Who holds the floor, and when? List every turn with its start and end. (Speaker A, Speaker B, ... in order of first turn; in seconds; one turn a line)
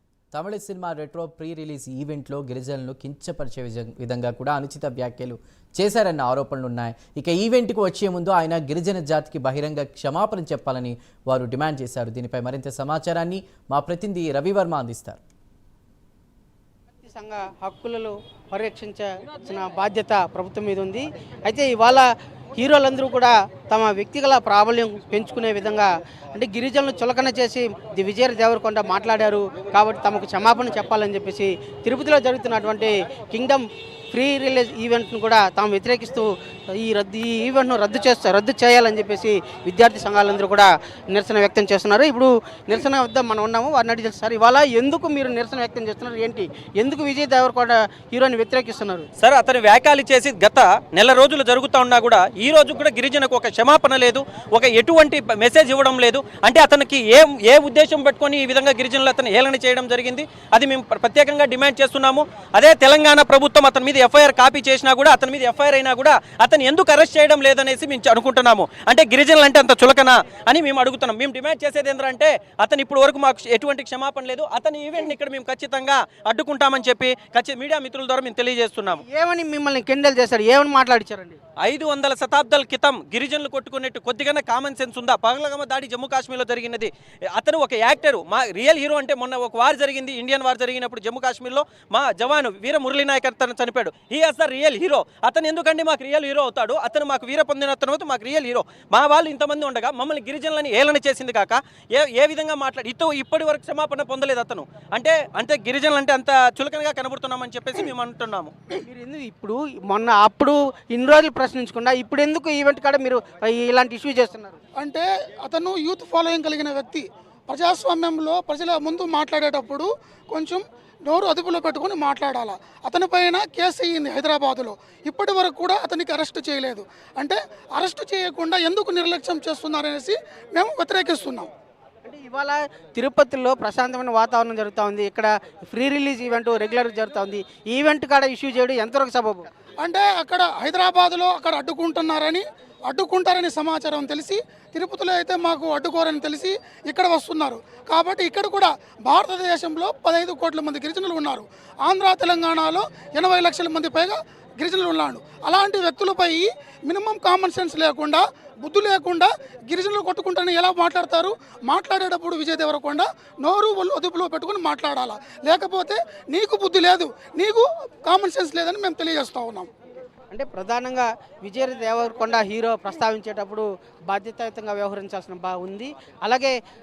Speaker A: 0.3-15.2
Speaker B: 17.0-49.1
Speaker C: 49.2-79.0
Speaker B: 79.1-81.4
Speaker C: 81.6-108.5
Speaker B: 108.9-114.6
Speaker D: 114.8-131.5
Speaker B: 132.1-139.5
Speaker D: 139.8-169.7
Speaker B: 170.3-176.6